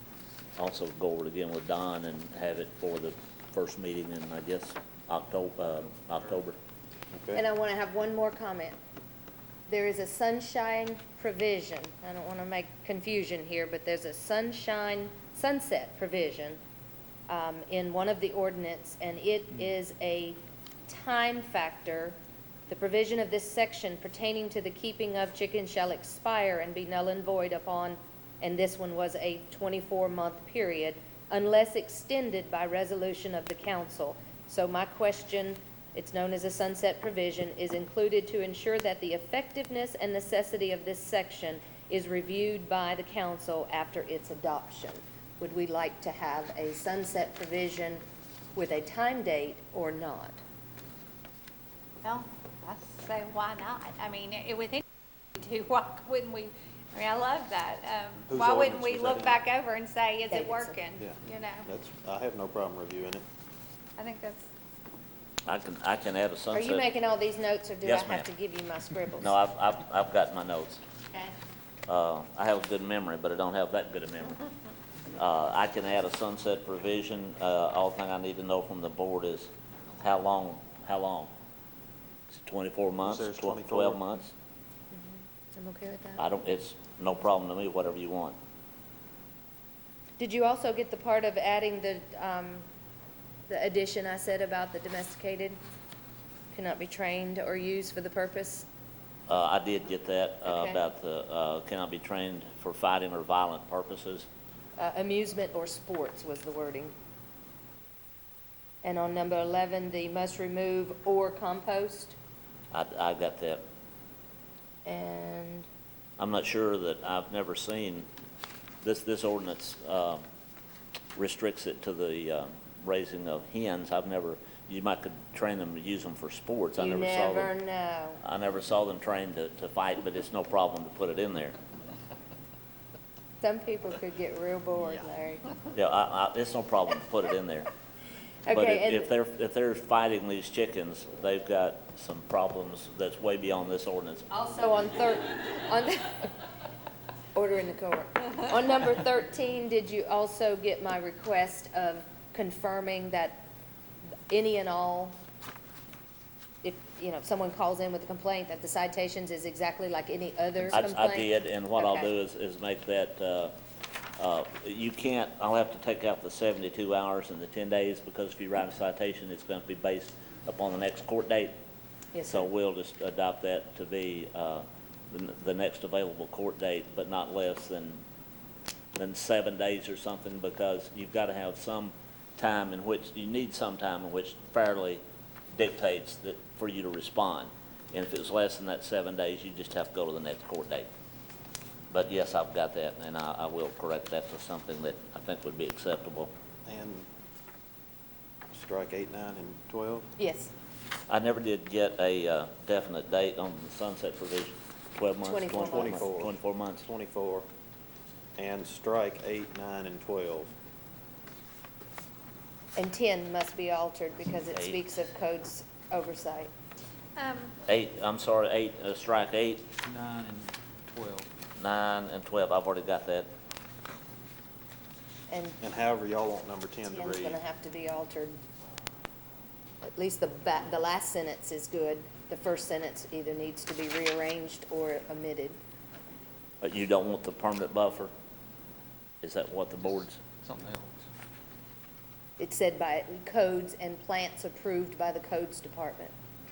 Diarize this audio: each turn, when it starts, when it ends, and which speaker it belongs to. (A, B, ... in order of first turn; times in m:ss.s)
0:00.6-0:06.6 A
0:07.1-0:07.4 B
0:07.3-0:08.8 C
0:09.7-0:16.6 C
0:17.3-0:22.2 C
0:22.7-0:48.0 C
0:48.6-0:50.4 C
0:52.0-0:54.8 D
0:55.4-1:01.7 D
0:58.3-0:59.4 B
1:00.3-1:00.8 C
1:01.0-1:03.2 B
1:04.0-1:04.5 D
1:05.5-1:06.9 A
1:06.5-1:09.4 C
1:07.8-1:08.3 A
1:09.2-1:10.8 A
1:11.9-1:14.4 A
1:15.2-1:21.3 A
1:22.3-1:24.3 A
1:23.0-1:24.0 B
1:24.9-1:26.2 C
1:26.2-1:28.4 A
1:30.2-1:32.7 C
1:33.5-1:35.6 C
1:36.5-1:38.7 C
1:39.3-1:44.3 A
1:40.5-1:40.8 C
1:44.8-1:46.9 C
1:48.8-1:52.2 C
1:52.7-1:53.6 A
1:54.9-1:55.7 C
1:56.2-1:58.1 A
1:58.8-2:00.2 A
2:01.2-2:07.5 A
2:06.8-2:08.2 C
2:08.2-2:11.6 A
2:13.4-2:15.5 C
2:15.7-2:17.7 A
2:18.5-2:19.1 C
2:18.5-2:24.3 A
2:24.3-2:26.4 C
2:27.4-2:33.5 C
2:34.3-2:35.2 C
2:36.6-2:42.1 C
2:40.7-2:43.5 A
2:44.2-2:51.6 A
2:52.1-2:52.5 C
2:52.3-2:58.0 A
2:59.0-3:05.0 A
3:05.5-3:10.9 A
3:11.9-3:16.3 A
3:16.7-3:17.1 B
3:18.5-3:20.1 B
3:20.2-3:20.5 C
3:21.1-3:26.9 A
3:25.3-3:26.1 C
3:25.5-3:27.5 B
3:28.4-3:30.5 B
3:32.8-3:36.5 C
3:34.5-3:34.8 A
3:37.2-3:37.5 D
3:37.7-3:39.7 A
3:39.8-3:41.3 E
3:41.6-3:43.3 A
3:45.3-3:45.6 C
3:45.6-3:47.4 B
3:46.9-3:48.4 C
3:49.8-3:55.6 C
3:56.6-3:58.1 A
3:59.2-4:00.2 A
4:00.4-4:00.9 E
4:02.4-4:06.1 C